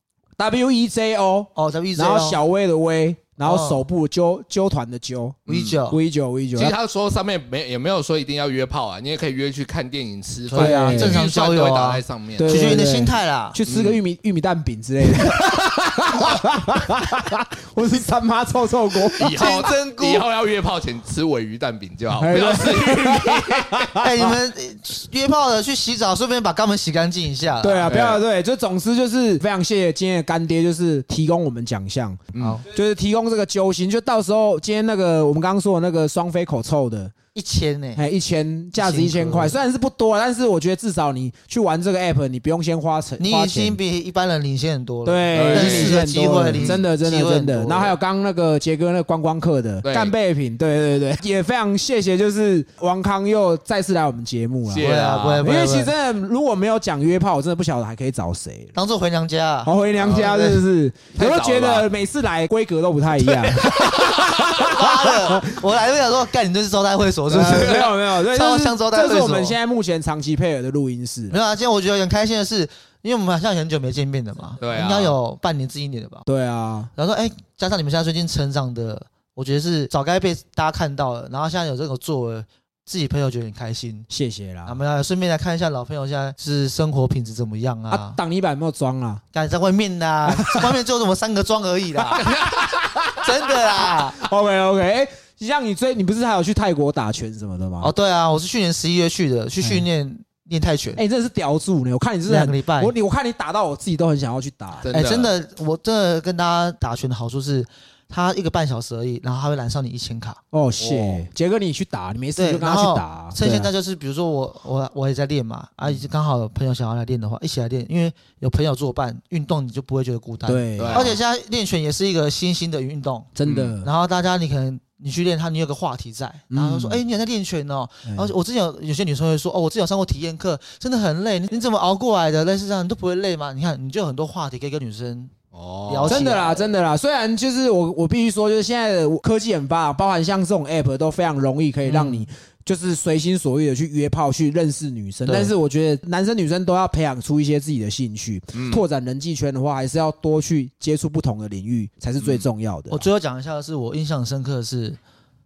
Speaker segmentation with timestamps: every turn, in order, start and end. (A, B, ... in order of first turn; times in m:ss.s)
0:00.4-0:06.8 A
0:01.5-0:02.4 B
0:03.4-0:03.8 B
0:05.5-0:05.8 C
0:05.5-0:06.0 B
0:06.5-0:12.8 C
0:10.5-0:13.6 B
0:10.5-0:11.2 A
0:12.4-0:19.6 A
0:13.7-0:14.0 C
0:19.2-0:23.9 C
0:19.4-0:20.2 B
0:22.2-0:24.4 A
0:24.0-0:27.9 B
0:27.6-0:37.1 A
0:27.9-0:28.2 C
0:32.3-0:32.6 C
0:32.4-0:32.6 B
0:37.3-0:38.0 B
0:38.0-0:43.8 A
0:38.8-0:39.6 B
0:43.2-0:47.9 B
0:45.0-0:58.7 A
0:45.3-0:46.0 C
0:46.6-0:46.8 C
0:49.8-0:50.1 C
0:54.7-0:55.4 C
0:54.8-0:55.9 B
0:58.7-1:00.6 B
0:59.6-1:05.7 A
1:00.0-1:00.3 C
1:01.1-1:01.9 C
1:03.2-1:04.6 C
1:04.0-1:09.6 B
1:07.3-1:11.4 A
1:07.4-1:07.8 C
1:11.3-1:16.2 B
1:14.6-1:15.2 C
1:16.2-1:16.9 A
1:16.9-1:24.1 B
1:24.1-1:24.8 A
1:24.6-1:28.2 B
1:27.9-1:29.2 A
1:29.3-1:32.3 B
1:30.2-1:30.7 A
1:32.1-1:37.9 A
1:32.2-1:32.7 C
1:33.2-1:34.2 B
1:37.8-1:41.0 B
1:39.6-1:39.8 A
1:41.0-1:44.8 A
1:42.2-1:42.9 B
1:44.8-1:45.3 C
1:44.9-1:50.4 B
1:50.5-1:53.7 A
1:50.8-1:51.2 C
1:52.3-2:15.3 B
2:00.5-2:01.1 A
2:00.8-2:01.2 C
2:03.3-2:03.9 A
2:03.4-2:03.7 C
2:06.5-2:07.0 A
2:08.0-2:08.3 A
2:15.5-2:16.3 C
2:15.9-2:16.7 B
2:16.0-2:33.0 A
2:21.8-2:22.2 B
2:28.5-2:28.8 C
2:32.2-2:32.4 C
2:32.9-2:35.0 B